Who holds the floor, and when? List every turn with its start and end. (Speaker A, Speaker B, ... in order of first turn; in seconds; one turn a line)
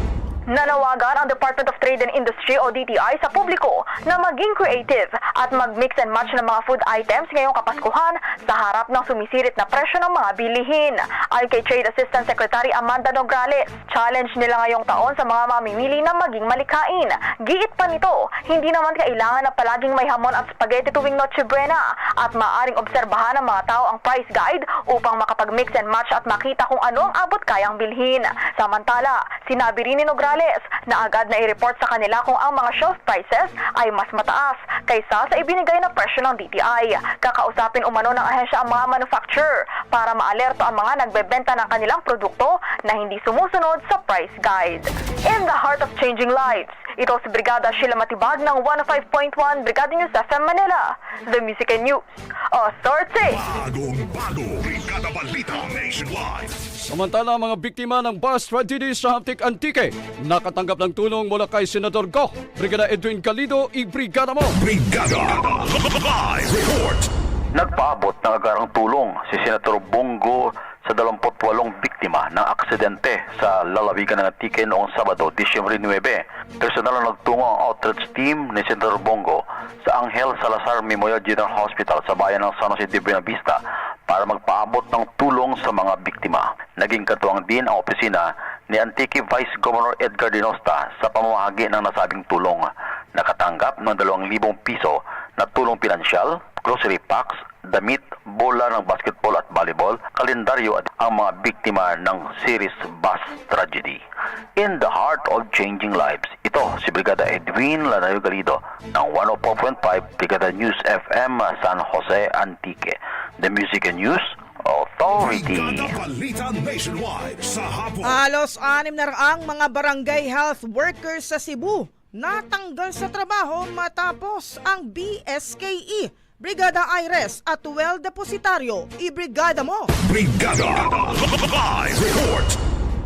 Speaker A: 0.5-53.4
Speaker B: 53.2-56.5
Speaker C: 56.9-64.5
Speaker B: 64.6-67.1
Speaker D: 67.5-104.0
Speaker D: 104.6-116.0
Speaker B: 115.2-118.2
Speaker E: 118.0-129.9
Speaker B: 130.0-132.6